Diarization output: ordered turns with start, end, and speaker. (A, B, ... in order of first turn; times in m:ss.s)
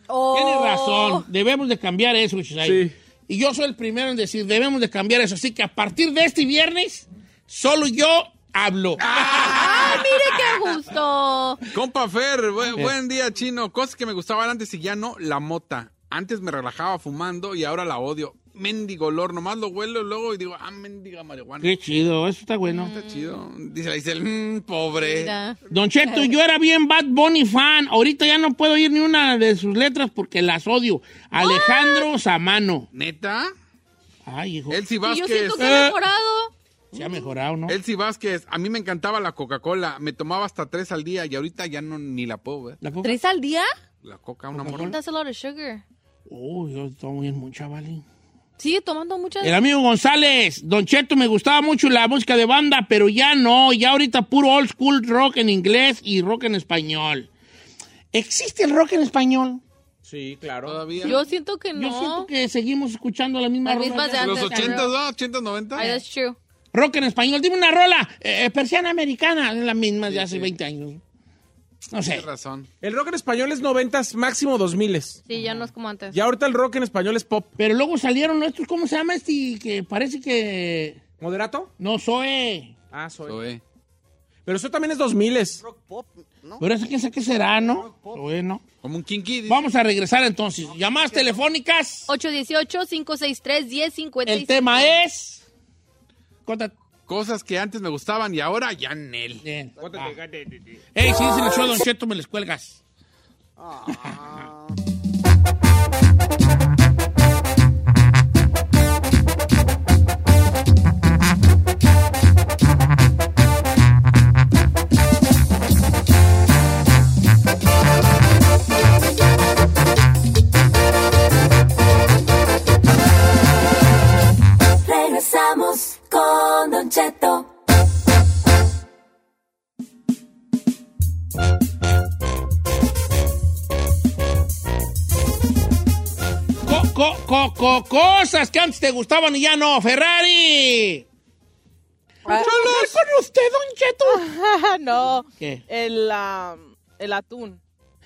0:00.1-0:01.2 A
0:00.3-0:10.1 B
0:02.6-0:02.9 C
0:09.0-0:10.6 D
0:09.4-0:11.6 A
0:11.7-0:21.8 D
0:21.6-0:22.9 B
0:22.7-0:23.4 A
0:22.8-0:25.3 D
0:25.0-0:25.6 A
0:25.7-0:32.9 B
0:31.4-0:32.1 A
0:32.9-0:33.5 D
0:34.3-0:34.8 B
0:34.7-0:35.9 D
0:35.0-0:36.5 A
0:35.6-0:35.9 B
0:36.9-0:37.8 B
0:37.7-0:42.8 D
0:42.8-0:43.2 B
0:43.0-0:43.7 A
0:44.0-0:45.0 D
0:44.5-0:45.0 B
0:44.7-0:45.8 A
0:46.3-0:48.0 B
0:48.6-0:49.6 A
0:49.4-0:57.3 B
0:58.1-0:59.6 B
1:00.0-1:00.8 C
1:00.6-1:01.2 D
1:01.0-1:02.3 A
1:01.8-1:04.9 B
1:03.7-1:04.9 A
1:04.2-1:06.0 D
1:05.8-1:06.4 A
1:06.7-1:11.0 B
1:10.1-1:10.5 C
1:11.9-1:12.3 B
1:12.0-1:12.7 D
1:12.8-1:15.2 C
1:15.3-1:16.2 A
1:15.3-1:15.7 B
1:16.1-1:17.5 C
1:17.6-1:21.0 B
1:21.2-1:21.7 C
1:21.8-1:22.7 B
1:22.9-1:23.4 C
1:23.3-1:23.6 D
1:24.5-1:25.6 C
1:25.6-1:26.6 E
1:26.6-1:28.6 B
1:28.8-1:29.7 D
1:29.5-1:32.1 B
1:32.1-1:34.8 A
1:34.3-1:35.4 B
1:36.5-1:36.7 B
1:37.1-1:39.4 D
1:39.4-1:40.2 B
1:39.8-1:40.8 C
1:41.0-1:42.8 B
1:43.6-1:44.7 E
2:04.8-2:07.5 F
2:16.6-2:21.0 B
2:22.3-2:24.2 B
2:22.3-2:22.9 D
2:24.1-2:27.6 G
2:25.4-2:25.6 B